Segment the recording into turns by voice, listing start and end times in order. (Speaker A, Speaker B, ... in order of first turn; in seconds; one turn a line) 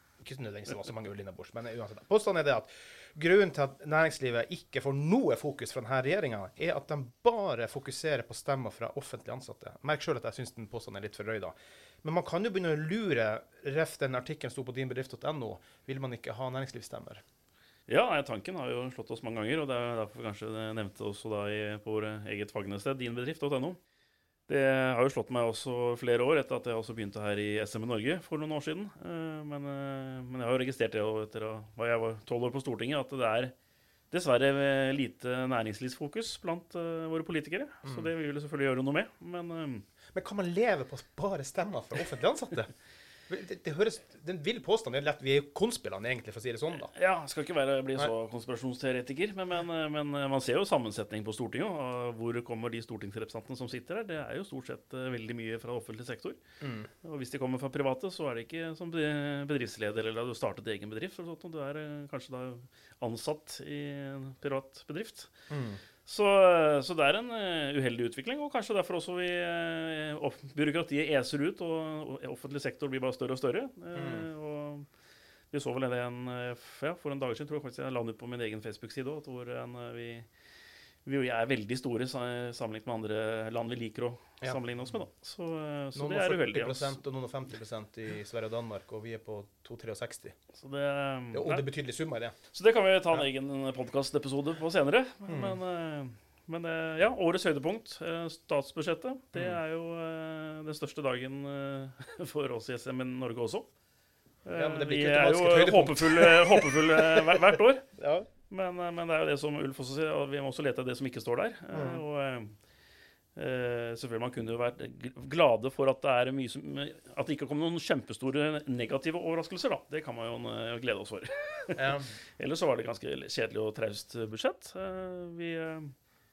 Speaker A: 0.2-17.2
Speaker B: 17.9-23.8
Speaker B: 24.5-33.5
Speaker B: 34.1-39.9
Speaker A: 37.8-38.1
Speaker A: 40.1-42.7
Speaker A: 43.3-46.9
Speaker B: 46.8-56.4
Speaker A: 56.6-56.9
Speaker B: 57.0-65.3
Speaker A: 65.5-65.8
Speaker B: 66.1-74.9
Speaker A: 74.0-74.3
Speaker B: 75.5-80.3
Speaker B: 81.0-87.0
Speaker A: 86.0-90.3
Speaker B: 90.6-91.7
Speaker A: 91.3-92.3
Speaker B: 92.5-103.7
Speaker A: 95.3-95.6
Speaker B: 104.5-107.9
Speaker A: 104.5-108.3
Speaker B: 108.5-112.6
Speaker A: 111.7-112.0
Speaker B: 113.4-125.9
Speaker A: 121.8-122.1